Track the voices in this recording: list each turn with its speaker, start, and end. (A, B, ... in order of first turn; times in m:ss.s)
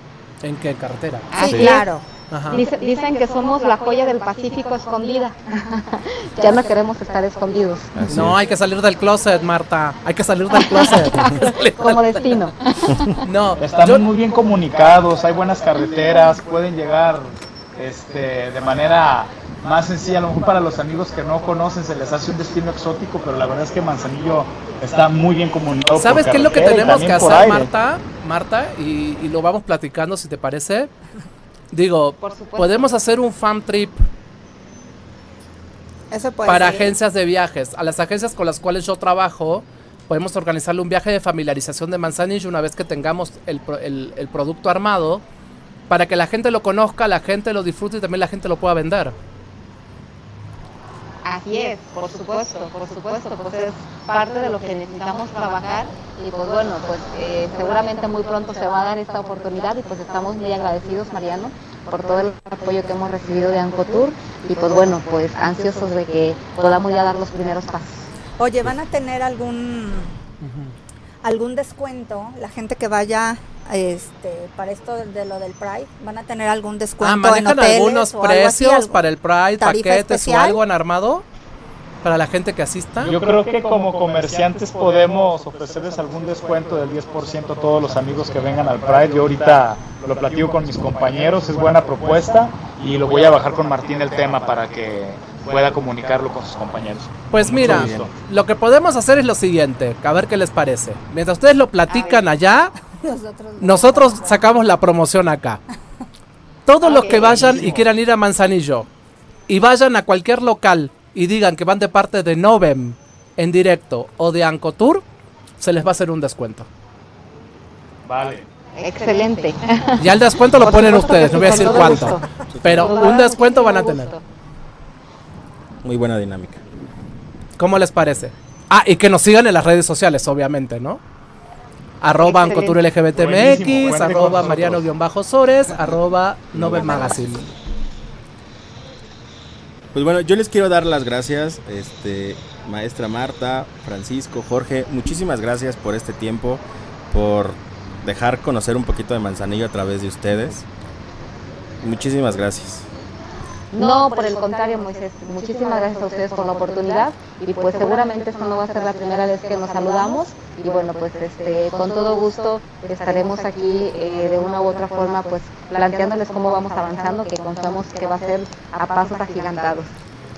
0:00.4-0:01.3 A
0:01.3-0:01.9 B
0:01.4-0:02.0 C
0:01.4-0:01.7 D
0:02.3-0:02.6 A
0:02.5-0:07.9 B
0:07.9-0:08.4 D
0:08.1-0:12.2 A
0:10.6-0:13.0 B
0:13.2-0:14.1 A
0:13.6-0:27.7 E
0:26.0-0:30.9 A
0:31.7-0:34.0 A
0:32.2-0:32.8 B
0:36.1-0:36.9 C
0:36.4-0:45.2 A
0:45.9-0:49.1 A
0:51.2-1:07.9 B
1:08.4-1:10.1 C
1:10.4-1:10.8 A
1:11.2-1:19.0 C
1:17.0-1:21.2 A
1:19.6-1:20.6 C
1:22.0-1:23.1 A
1:23.0-1:38.1 E
1:37.3-1:42.7 A
1:37.5-1:38.1 D
1:41.9-1:42.2 B
1:43.0-1:44.5 C
1:43.6-1:45.6 A
1:46.7-1:48.9 A
1:46.8-1:47.7 B
1:49.5-1:55.0 A
1:55.6-1:56.7 A
1:58.0-1:58.5 E
1:58.7-2:04.2 B
2:00.0-2:04.1 A
2:02.5-2:03.0 D
2:05.8-2:06.6 D
2:07.6-2:11.0 A
2:12.0-2:17.5 A
2:12.1-2:12.8 B
2:13.1-2:14.8 E
2:16.5-2:17.0 D
2:16.7-2:17.2 B
2:19.9-2:30.6 D
2:31.8-2:32.9 D
2:33.7-2:49.9 B